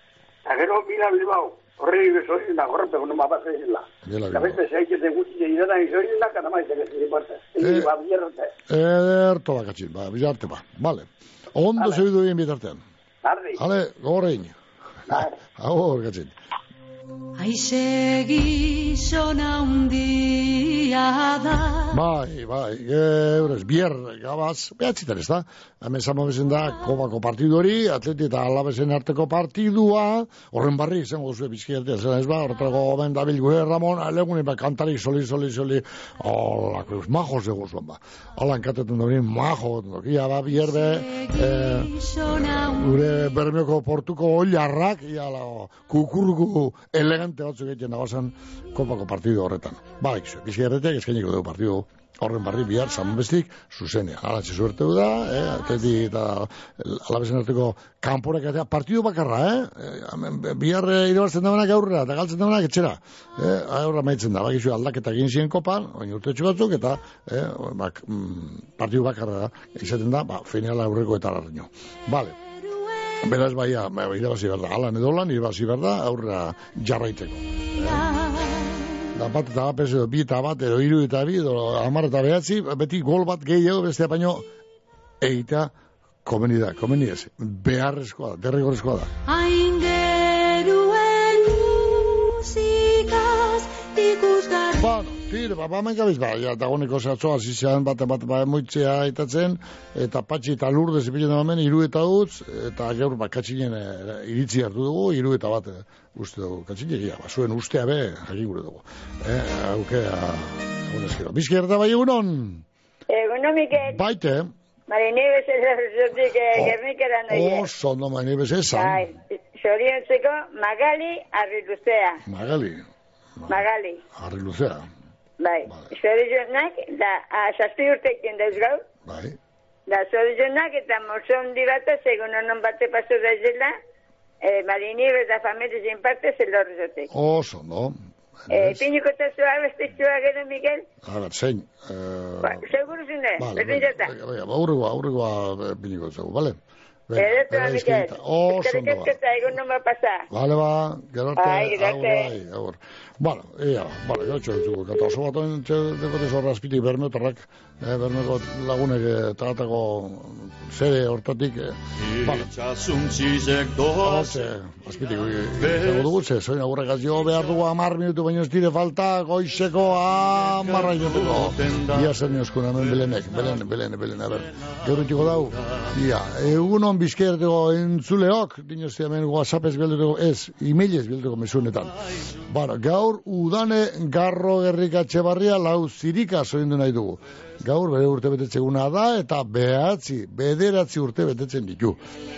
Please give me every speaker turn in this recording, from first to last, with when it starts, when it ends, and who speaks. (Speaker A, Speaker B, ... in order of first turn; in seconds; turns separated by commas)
Speaker A: 0.5-8.5, Speaker B: 4.0-4.6, Speaker B: 7.6-7.9, Speaker B: 8.7-12.8, Speaker A: 13.2-13.6, Speaker B: 13.6-14.6, Speaker B: 15.1-16.3, Speaker C: 17.4-21.9, Speaker B: 21.9-72.3, Speaker C: 40.9-42.7, Speaker C: 72.6-73.1, Speaker B: 73.2-78.0, Speaker C: 77.9-78.8, Speaker B: 79.1-84.5, Speaker B: 85.2-85.7, Speaker B: 86.2-89.1, Speaker C: 89.3-94.9, Speaker B: 94.8-112.6, Speaker D: 113.1-114.0, Speaker B: 113.9-114.5, Speaker D: 114.9-117.7, Speaker B: 117.3-119.0, Speaker D: 118.8-122.2, Speaker B: 122.2-122.8, Speaker D: 123.5-124.0, Speaker B: 124.2-124.9, Speaker D: 125.4-128.8, Speaker B: 129.0-129.4, Speaker D: 129.9-133.7, Speaker D: 134.4-137.1, Speaker B: 137.1-137.9, Speaker B: 138.5-138.8, Speaker D: 138.5-140.8, Speaker B: 141.0-142.6, Speaker D: 142.4-144.1, Speaker B: 143.4-149.2, Speaker D: 147.2-150.2, Speaker B: 150.3-162.5, Speaker D: 151.4-152.2, Speaker E: 162.0-164.5, Speaker B: 164.0-181.9, Speaker E: 165.6-166.1, Speaker E: 170.2-172.2, Speaker E: 172.7-173.6, Speaker E: 174.9-175.9, Speaker B: 182.5-192.0